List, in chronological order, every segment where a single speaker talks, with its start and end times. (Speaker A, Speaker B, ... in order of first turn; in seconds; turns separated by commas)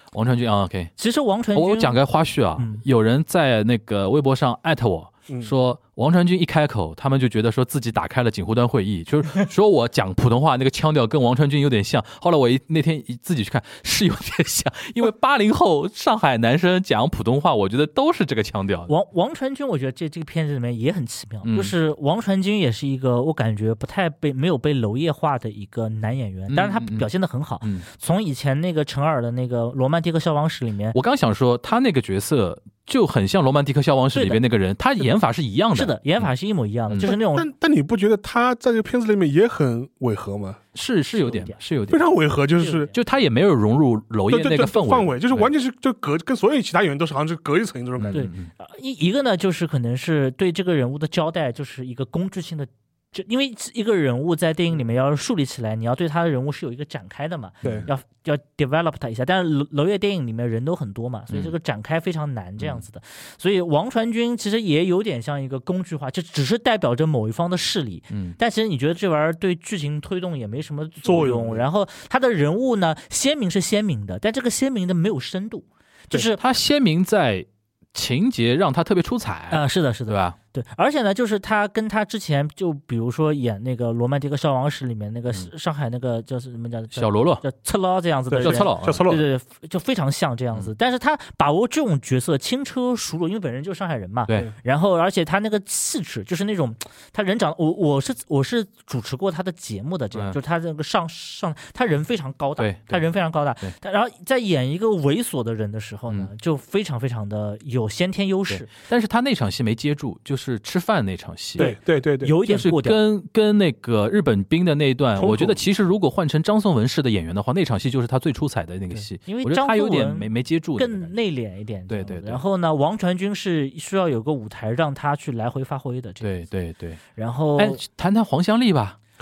Speaker A: 0.1-0.9, Speaker B: 1.0-2.0, Speaker A: 1.6-18.9, Speaker B: 2.6-2.8, Speaker B: 18.9-31.0, Speaker A: 21.4-21.7, Speaker A: 26.5-27.1, Speaker A: 30.9-36.0, Speaker B: 34.1-34.4, Speaker B: 35.7-37.5, Speaker C: 37.0-40.6, Speaker A: 40.8-42.0, Speaker B: 41.1-41.6, Speaker C: 41.9-42.9, Speaker B: 42.6-43.0, Speaker A: 42.9-45.5, Speaker C: 44.3-48.2, Speaker A: 48.0-48.5, Speaker B: 48.1-76.4, Speaker A: 68.1-68.4, Speaker C: 71.0-71.7, Speaker A: 76.4-80.4, Speaker B: 79.5-108.7, Speaker A: 87.0-87.4, Speaker C: 88.3-89.2, Speaker A: 88.4-89.1, Speaker A: 102.6-103.0, Speaker A: 108.5-111.7, Speaker C: 111.6-112.3, Speaker B: 111.6-113.0, Speaker A: 112.5-121.1, Speaker C: 115.2-115.6, Speaker B: 118.9-126.3, Speaker A: 121.9-122.4, Speaker A: 126.2-127.0, Speaker B: 127.2-127.8, Speaker A: 127.6-129.0